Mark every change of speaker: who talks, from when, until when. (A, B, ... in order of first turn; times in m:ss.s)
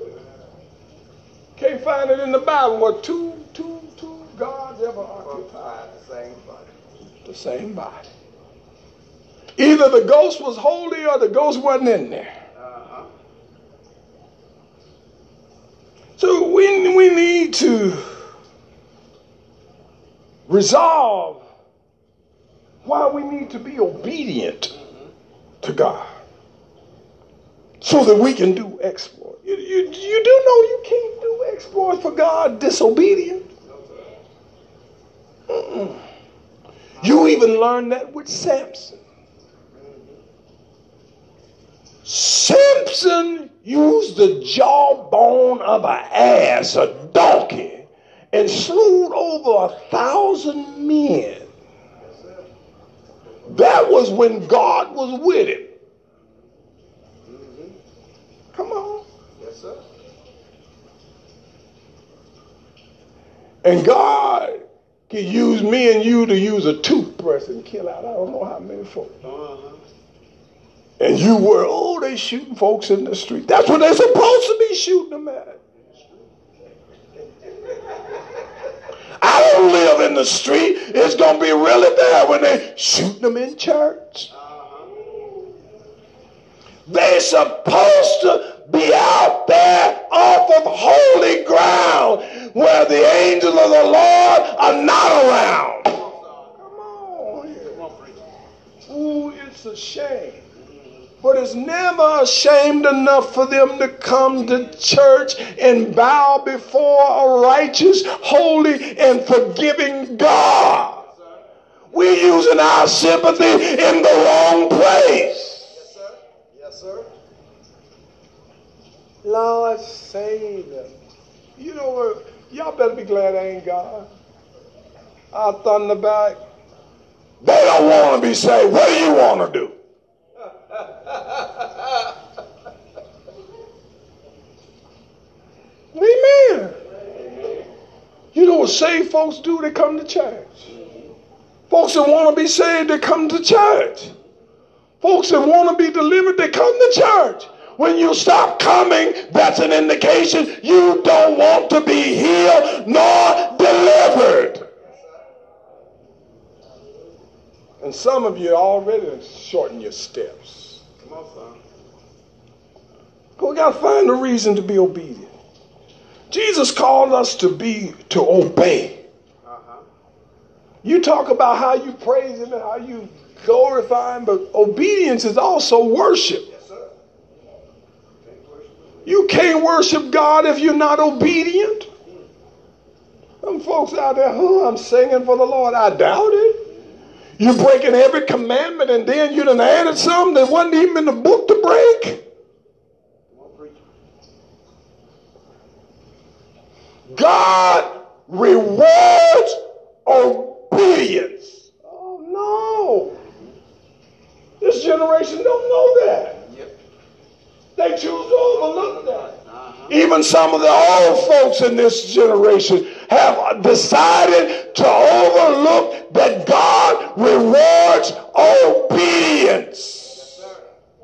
0:01.6-0:05.7 A
0:05.2-0:06.7 B
0:07.2-0:08.1 A
0:09.6-0:12.3 A
0:12.6-0:13.1 B
0:16.2-0:18.1 A
0:20.5-0:21.4 A
0:22.8-0:24.7 A
0:25.6-0:26.1 A
0:27.8-0:33.5 A
0:33.7-0:34.1 B
0:35.5-0:36.0 A
0:37.0-0:39.0 A
0:42.0-0:51.5 A
0:53.5-0:55.7 A
0:57.2-0:57.7 B
0:58.5-0:59.0 A
0:59.4-0:59.8 B
1:03.6-1:09.1 A
1:09.2-1:09.8 B
1:11.0-1:15.6 A
1:19.2-1:24.3 A
1:24.5-1:24.9 B
1:26.9-1:36.0 A
1:36.6-1:37.8 A
1:37.8-1:38.1 B
1:38.8-1:40.4 A
1:41.2-1:51.0 A
1:51.9-1:55.8 A
1:55.7-1:57.1 B
1:59.2-2:00.9 A
2:01.6-2:04.1 A
2:05.3-2:06.4 A
2:07.4-2:09.7 A
2:15.9-2:16.8 A
2:18.3-2:20.7 A
2:21.7-2:24.1 A
2:25.0-2:34.7 A
2:37.8-2:40.8 A
2:41.0-2:41.6 B
2:43.4-2:45.3 A
2:46.3-2:49.0 A
2:49.4-2:49.8 B
2:50.8-2:56.5 A
2:58.2-2:59.1 B
2:59.0-3:01.9 A
3:03.4-3:06.6 A
3:07.4-3:12.2 A
3:13.3-3:13.7 B
3:17.1-3:23.2 A
3:24.6-3:26.4 A
3:27.8-3:29.4 A
3:29.2-3:29.9 B
3:29.9-3:40.3 A
3:40.2-3:40.6 B